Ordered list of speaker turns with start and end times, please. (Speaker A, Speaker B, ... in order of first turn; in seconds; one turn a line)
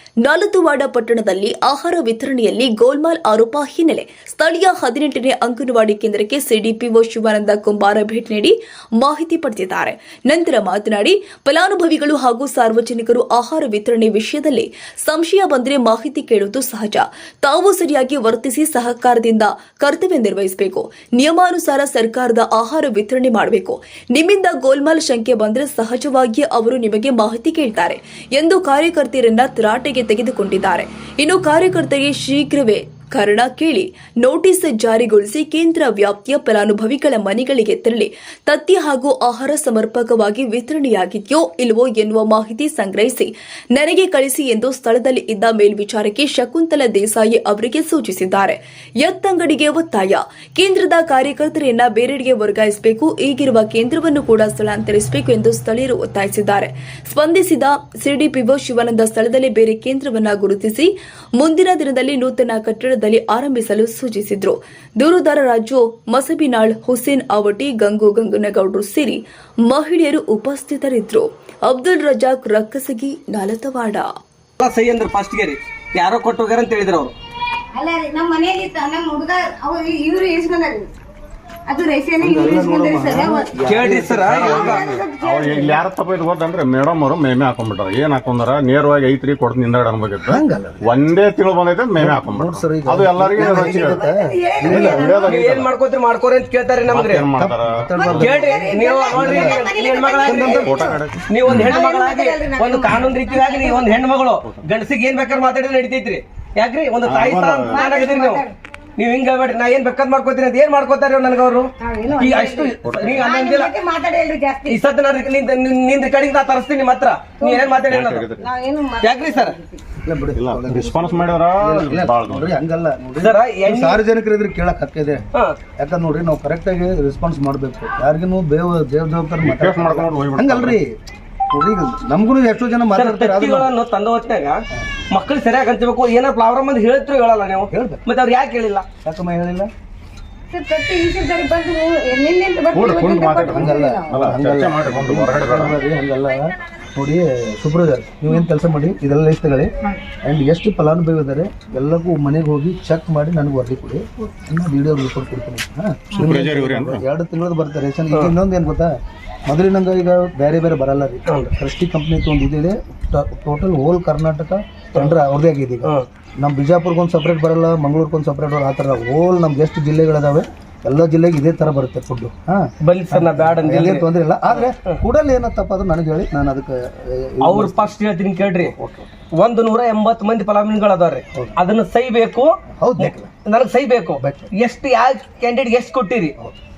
Speaker A: 0.2-74.1
Speaker B: 74.6-77.1
Speaker C: 77.7-80.9
Speaker C: 81.7-83.5
Speaker D: 82.2-84.9
Speaker B: 83.7-84.8
Speaker C: 84.3-85.8
Speaker E: 84.3-94.0
Speaker D: 90.2-90.8
Speaker D: 92.0-95.3
Speaker C: 93.4-95.3
Speaker E: 94.6-95.7
Speaker B: 95.2-97.2
Speaker E: 96.9-98.2
Speaker D: 97.4-99.6
Speaker C: 98.0-100.9
Speaker B: 98.1-108.5
Speaker D: 100.2-100.8
Speaker E: 100.3-101.7
Speaker C: 101.5-103.9
Speaker E: 107.0-107.9
Speaker C: 107.7-108.5
Speaker B: 109.0-113.7
Speaker C: 111.8-114.8
Speaker E: 112.8-113.3
Speaker B: 114.7-118.3
Speaker C: 117.4-117.8
Speaker E: 117.9-118.5
Speaker C: 118.3-119.8
Speaker B: 119.0-119.5
Speaker D: 120.0-125.2
Speaker E: 120.3-122.5
Speaker B: 123.2-124.0
Speaker D: 125.8-130.9
Speaker E: 129.4-130.8
Speaker D: 131.5-133.7
Speaker B: 132.9-134.6
Speaker B: 135.1-138.8
Speaker D: 137.7-138.0
Speaker D: 139.0-139.7
Speaker C: 140.5-144.1
Speaker E: 142.7-145.7
Speaker D: 143.5-149.7
Speaker D: 150.2-158.9
Speaker E: 156.2-157.0
Speaker D: 159.5-177.9
Speaker B: 172.8-174.9
Speaker B: 177.4-178.7
Speaker D: 178.6-179.1
Speaker B: 179.4-186.3
Speaker D: 182.8-183.3
Speaker D: 184.2-184.5